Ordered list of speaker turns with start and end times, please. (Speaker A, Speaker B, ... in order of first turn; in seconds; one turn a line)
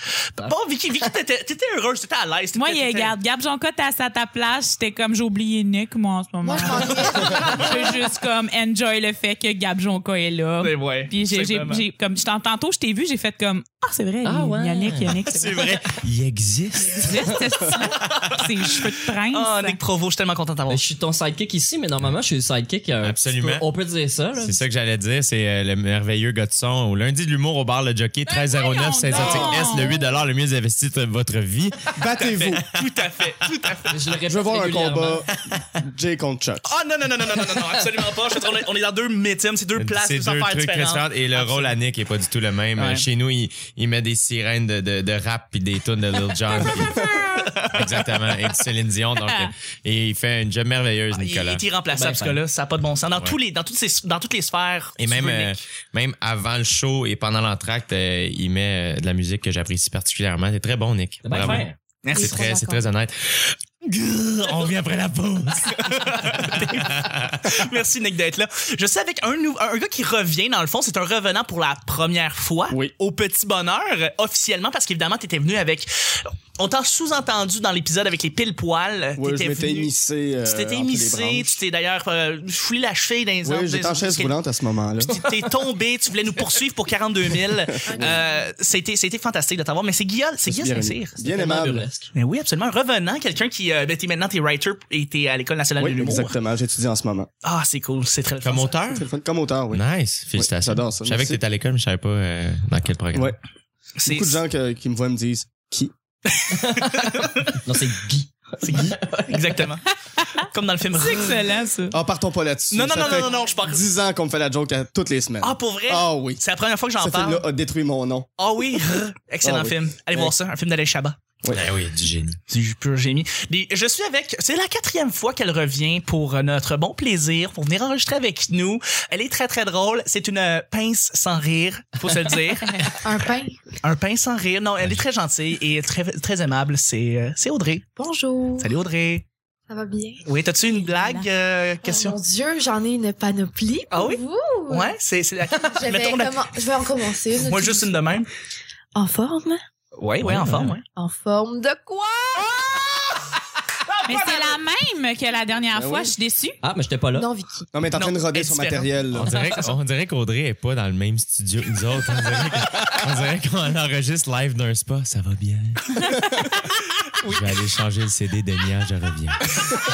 Speaker A: 0.4-1.1
Speaker B: 0.4-3.1
Speaker C: 2.5-15.8
Speaker D: 6.4-8.0
Speaker B: 10.6-11.8
Speaker A: 14.2-15.7
Speaker E: 15.3-17.4
Speaker C: 16.9-19.8
Speaker B: 19.3-20.8
Speaker A: 20.7-24.6
Speaker E: 23.0-23.7
Speaker E: 24.4-32.8
Speaker C: 28.3-30.0
Speaker B: 29.1-29.6
Speaker F: 29.2-29.5
Speaker F: 31.9-32.7
Speaker B: 32.6-34.2
Speaker A: 33.9-35.3
Speaker F: 34.3-36.7
Speaker B: 36.6-41.8
Speaker A: 37.4-38.2
Speaker E: 39.8-47.0
Speaker B: 42.8-43.0
Speaker F: 47.0-47.2
Speaker B: 47.2-48.0
Speaker E: 47.7-51.6
Speaker C: 49.2-49.5
Speaker B: 51.1-55.6
Speaker A: 51.9-52.4
Speaker E: 55.0-67.6
Speaker A: 61.2-61.8
Speaker B: 62.0-62.6
Speaker D: 62.1-62.8
Speaker B: 65.7-79.9
Speaker F: 79.2-81.6
Speaker B: 80.4-84.4
Speaker F: 83.4-85.2
Speaker B: 85.0-91.1
Speaker D: 87.8-88.5
Speaker F: 87.9-88.2
Speaker F: 90.4-91.9
Speaker A: 91.2-92.1
Speaker B: 92.1-96.3
Speaker F: 95.8-97.3
Speaker B: 97.4-98.8
Speaker E: 98.4-99.1
Speaker F: 99.0-99.8
Speaker E: 99.7-103.3
Speaker F: 100.3-101.4
Speaker B: 104.0-104.4
Speaker F: 104.1-105.9
Speaker B: 106.3-107.6
Speaker A: 106.5-108.9
Speaker B: 108.6-109.9
Speaker F: 108.7-109.0
Speaker C: 110.2-112.0
Speaker B: 110.4-111.5
Speaker F: 111.9-116.4
Speaker B: 112.7-113.8
Speaker B: 115.4-117.5
Speaker F: 117.0-118.3
Speaker B: 118.4-121.2
Speaker F: 119.4-120.3
Speaker E: 121.5-122.4
Speaker B: 122.5-132.8
Speaker C: 132.7-132.9
Speaker D: 133.0-133.7
Speaker B: 133.8-137.8
Speaker D: 138.0-138.8
Speaker B: 138.6-139.2
Speaker D: 139.7-140.3
Speaker B: 140.2-142.2
Speaker C: 140.6-141.3
Speaker D: 141.8-145.0
Speaker B: 143.9-146.6
Speaker D: 145.5-148.1
Speaker B: 147.3-148.3
Speaker D: 148.9-149.6
Speaker B: 150.0-150.8
Speaker E: 150.2-150.8
Speaker D: 151.0-152.8
Speaker B: 153.9-154.6
Speaker C: 154.1-156.6
Speaker F: 155.7-156.2
Speaker A: 156.6-157.3
Speaker D: 157.1-157.7
Speaker F: 157.7-159.3
Speaker B: 157.9-159.8
Speaker E: 159.1-166.0
Speaker E: 167.2-169.5